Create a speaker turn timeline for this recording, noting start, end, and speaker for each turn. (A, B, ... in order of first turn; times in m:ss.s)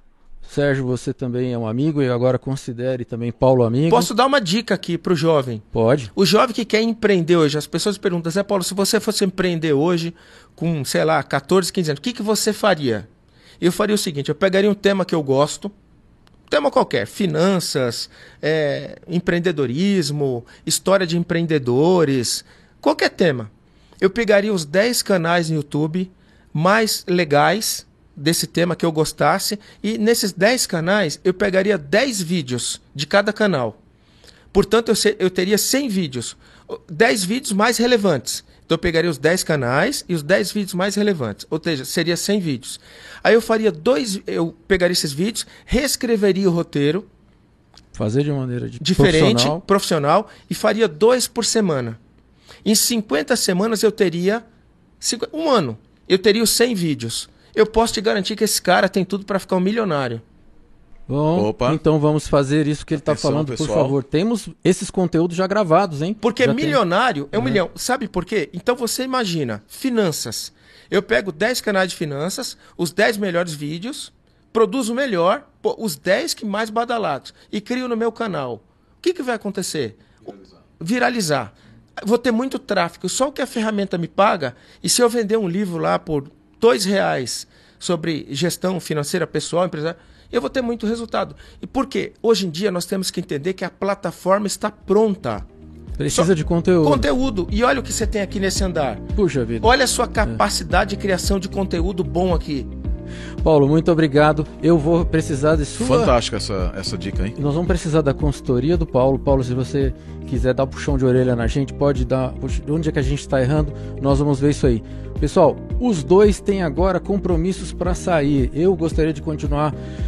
0:00.4-0:04.1 A
0:03.9-0:13.1 B
0:05.7-0:06.1 A
0:13.6-0:15.7 B
0:16.5-0:33.8 B
0:34.5-0:47.1 B
0:47.9-0:49.6 A
0:48.8-0:52.0 B
0:52.6-0:54.4 B
0:55.0-1:00.2 B
1:01.1-1:06.8 A
1:01.4-1:01.8 C
1:03.0-1:04.0 C
1:06.2-1:20.0 B
1:20.8-1:35.4 B
1:36.0-1:37.1 A
1:36.8-1:39.1 B
1:39.2-1:39.7 A
1:39.6-1:42.7 B
1:43.4-1:46.1 A
1:45.8-1:47.4 C
1:47.4-1:59.8 A